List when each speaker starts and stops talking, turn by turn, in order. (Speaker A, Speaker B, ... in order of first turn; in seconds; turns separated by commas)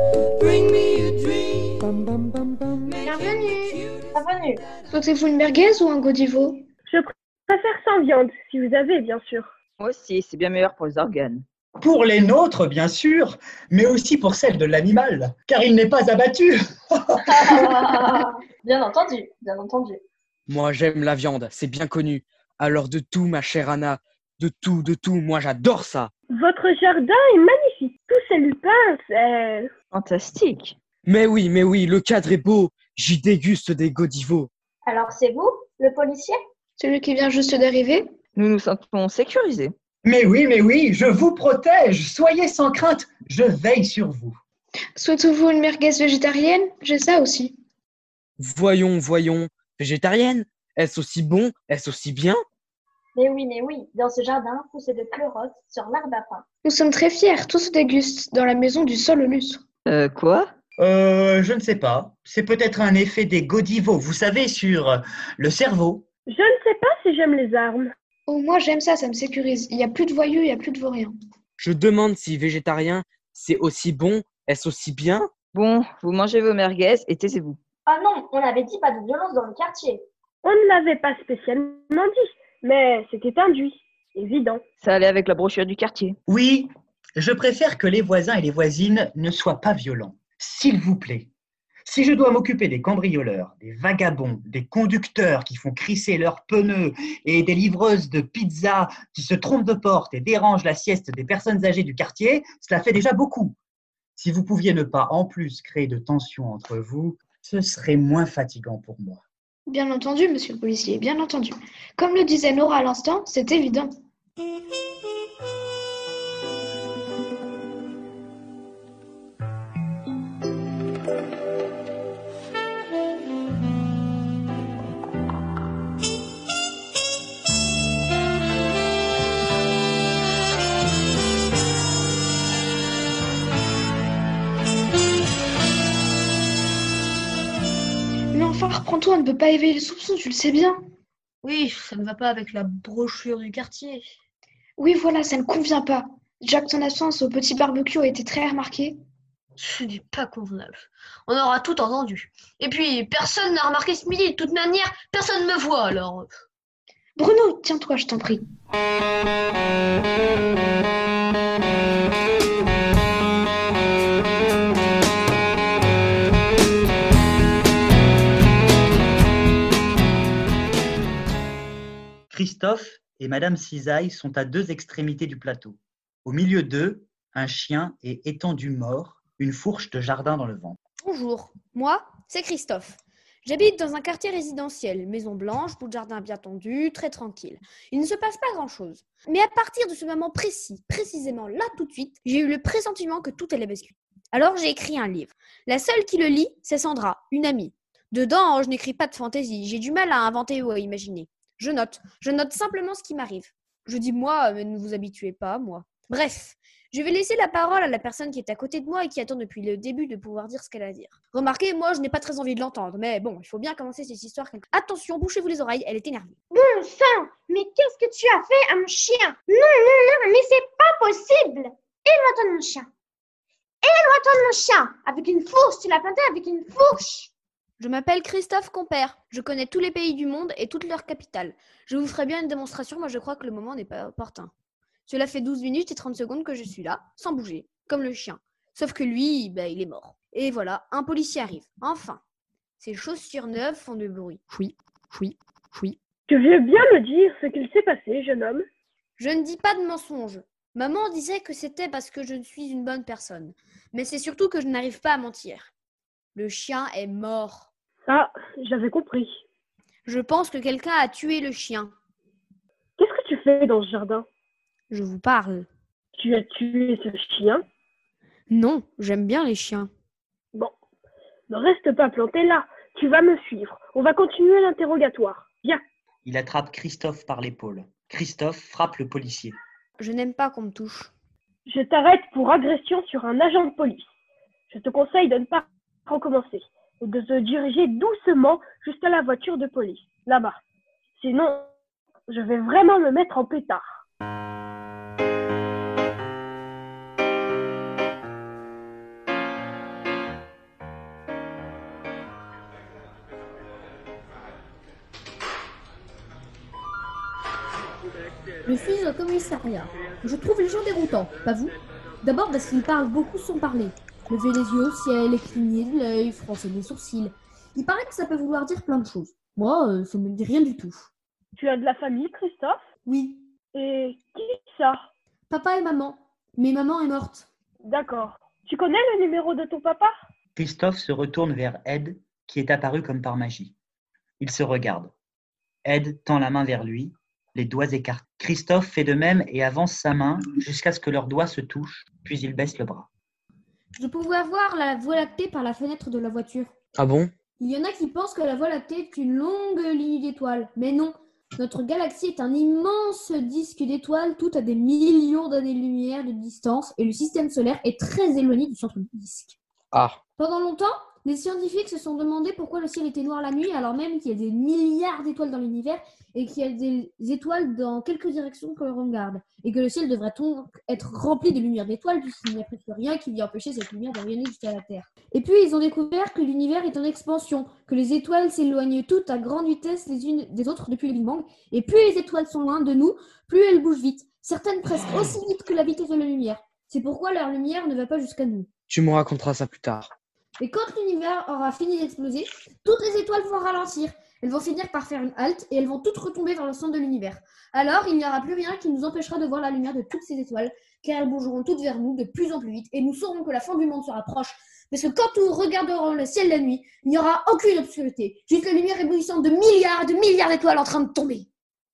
Speaker A: 0.3-4.0, Speaker B: 3.0-3.8, Speaker C: 4.1-4.6, Speaker D: 4.9-6.6, Speaker E: 6.9-9.5, Speaker F: 9.8-11.4, Speaker G: 11.8-17.7, Speaker C: 17.2-20.0, Speaker H: 20.5-26.1, Speaker E: 26.4-29.7, Speaker F: 29.9-30.8, Speaker H: 31.1-34.5, Speaker C: 34.9-36.4, Speaker D: 36.8-38.1, Speaker F: 38.4-39.7, Speaker G: 40.0-44.4, Speaker D: 45.0-47.6, Speaker H: 48.4-52.4, Speaker C: 53.1-56.5, Speaker D: 56.6-59.6, Speaker F: 59.9-60.5, Speaker G: 60.8-66.0, Speaker E: 66.3-67.9, Speaker D: 68.3-71.1, Speaker H: 71.6-75.3, Speaker F: 75.5-77.6, Speaker C: 77.9-80.0, Speaker E: 80.4-84.6, Speaker F: 84.8-86.2, Speaker G: 86.3-91.3, Speaker G: 91.8-103.5, Speaker G: 104.2-109.2, Speaker D: 109.7-113.9, Speaker D: 138.3-140.8, Speaker I: 141.4-144.2, Speaker D: 144.8-149.0, Speaker I: 149.6-156.3, Speaker D: 157.2-158.4, Speaker G: 172.3-180.8, Speaker J: 181.0-216.3, Speaker B: 216.5-222.9, Speaker B: 223.8-227.3, Speaker J: 227.8-234.5, Speaker J: 235.1-242.2, Speaker J: 242.8-246.0, Speaker E: 246.3-248.6, Speaker J: 249.2-255.7, Speaker J: 256.3-257.7, Speaker E: 258.0-259.4, Speaker J: 260.1-261.9, Speaker E: 263.0-264.2, Speaker J: 264.9-265.7, Speaker E: 266.1-267.6, Speaker J: 268.5-269.9, Speaker E: 271.5-275.8, Speaker G: 276.2-279.6, Speaker J: 280.0-281.1, Speaker E: 281.7-284.1, Speaker E: 284.7-290.6, Speaker E: 291.2-291.7, Speaker E: 292.3-294.0, Speaker J: 308.6-321.1, Speaker E: 321.6-322.8, Speaker J: 323.1-323.4, Speaker E: 323.7-325.1, Speaker J: 325.5-327.5, Speaker E: 327.8-330.2, Speaker G: 330.6-333.7, Speaker G: 334.4-335.1, Speaker G: 335.8-343.1, Speaker J: 343.9-346.7, Speaker H: 347.0-347.3, Speaker J: 347.6-359.6, Speaker H: 359.9-360.2, Speaker J: 360.4-388.7, Speaker H: 388.9-390.1, Speaker J: 390.6-411.5